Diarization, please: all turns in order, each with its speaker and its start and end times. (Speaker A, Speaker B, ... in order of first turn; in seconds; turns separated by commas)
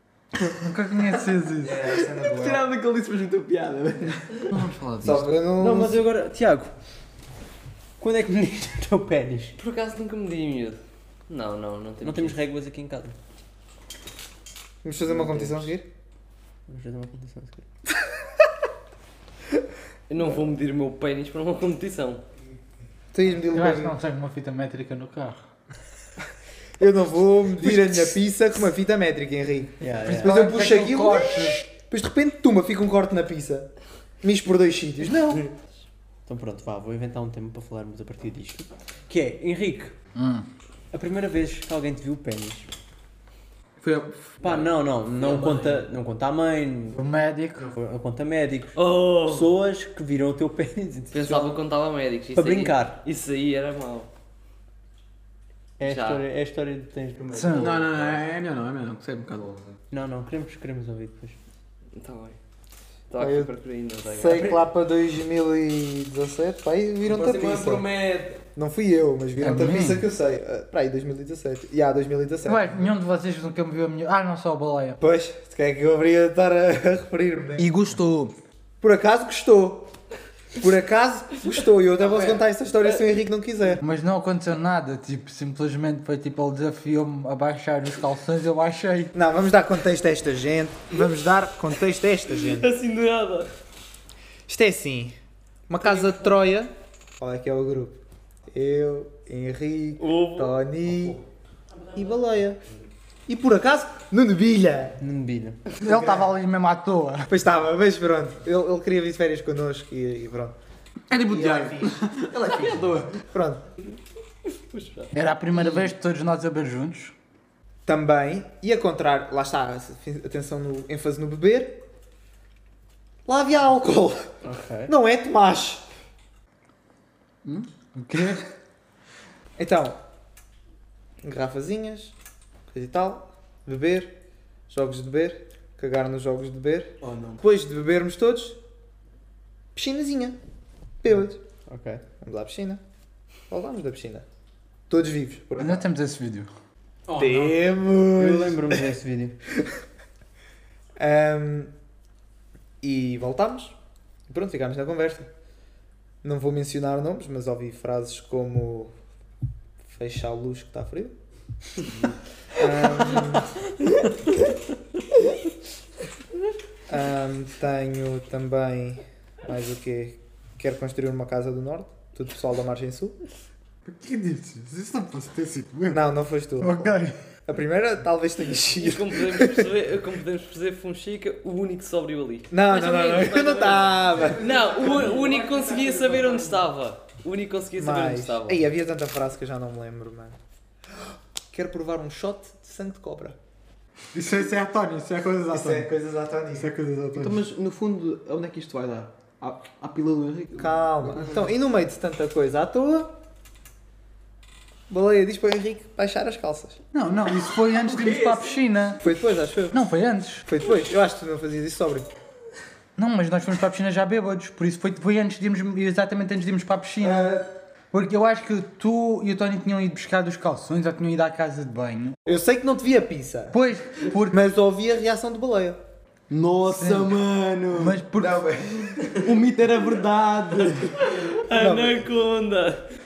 Speaker A: 0.6-1.9, Speaker B: 1.6-2.7, Speaker C: 1.7-5.3, Speaker B: 5.0-6.0, Speaker D: 5.6-6.7, Speaker D: 8.0-9.6, Speaker E: 9.6-12.4, Speaker D: 12.0-13.1, Speaker B: 14.8-15.8, Speaker E: 15.1-15.7, Speaker D: 16.7-17.6, Speaker E: 20.1-22.2, Speaker B: 23.1-23.9, Speaker A: 23.5-25.4, Speaker B: 26.8-33.7, Speaker D: 29.8-30.4, Speaker A: 30.0-31.6, Speaker B: 34.2-35.5, Speaker D: 36.2-39.9, Speaker A: 40.1-40.5, Speaker D: 40.9-42.7, Speaker C: 43.8-44.4, Speaker E: 44.4-44.7, Speaker D: 44.4-47.0, Speaker C: 45.2-45.8, Speaker A: 46.9-47.7, Speaker D: 47.6-51.5, Speaker E: 48.8-49.5, Speaker E: 51.1-54.1, Speaker D: 52.3-53.0, Speaker D: 55.8-58.0, Speaker E: 55.8-56.2, Speaker A: 57.3-57.8, Speaker C: 57.5-59.6, Speaker D: 59.9-61.4, Speaker E: 61.9-62.4, Speaker E: 63.1-64.6, Speaker B: 63.1-63.5, Speaker B: 64.0-67.9, Speaker C: 67.0-68.4, Speaker B: 68.5-72.9, Speaker A: 69.4-70.1, Speaker A: 72.4-75.0, Speaker B: 75.0-77.7, Speaker C: 77.6-78.3, Speaker B: 78.8-79.9, Speaker B: 80.6-83.8, Speaker E: 82.0-82.3, Speaker A: 83.8-89.1, Speaker B: 89.1-92.7, Speaker E: 92.4-93.5, Speaker B: 94.5-95.2, Speaker B: 95.7-101.2, Speaker E: 100.0-100.5, Speaker B: 101.9-102.6, Speaker B: 103.3-105.0, Speaker D: 105.0-105.6, Speaker B: 105.8-106.3, Speaker A: 105.8-107.3, Speaker B: 107.3-110.5, Speaker C: 111.1-113.2, Speaker B: 111.1-113.6, Speaker A: 115.1-117.1, Speaker B: 117.8-121.8, Speaker B: 123.2-124.3, Speaker D: 124.4-124.9, Speaker B: 124.9-125.8, Speaker A: 127.9-128.4, Speaker B: 129.6-130.0, Speaker B: 131.2-132.1, Speaker B: 132.7-134.1, Speaker B: 134.7-138.6, Speaker C: 137.0-137.4, Speaker B: 139.7-140.4, Speaker B: 141.0-141.4, Speaker D: 141.7-142.0, Speaker B: 142.2-142.8, Speaker B: 143.5-144.2, Speaker B: 144.9-145.9, Speaker A: 145.6-146.5, Speaker C: 147.1-147.7, Speaker B: 147.1-148.8, Speaker D: 148.2-149.4, Speaker B: 151.0-151.7, Speaker B: 152.8-153.7, Speaker B: 154.3-155.3, Speaker B: 156.2-158.9, Speaker B: 159.9-161.1, Speaker B: 162.5-163.7, Speaker B: 166.9-173.2, Speaker A: 173.8-177.2, Speaker B: 175.9-176.9, Speaker B: 177.5-179.7, Speaker E: 178.8-188.6, Speaker B: 182.5-186.4, Speaker B: 187.8-190.3, Speaker B: 191.5-193.3, Speaker A: 194.1-195.9, Speaker B: 195.5-196.7, Speaker A: 196.5-197.4, Speaker C: 197.1-201.3, Speaker B: 200.6-203.1, Speaker B: 204.9-206.8, Speaker A: 206.9-209.0, Speaker C: 207.9-208.6, Speaker B: 209.0-209.8, Speaker A: 209.7-210.4, Speaker B: 210.5-212.1, Speaker A: 212.9-217.4, Speaker B: 217.0-217.5, Speaker A: 217.9-222.2, Speaker B: 222.2-223.6, Speaker A: 223.5-224.4, Speaker B: 224.3-225.8, Speaker C: 226.3-228.0, Speaker A: 226.7-227.2, Speaker A: 227.7-228.6, Speaker B: 228.2-229.2, Speaker C: 229.2-231.1, Speaker E: 231.0-232.8, Speaker B: 231.5-232.1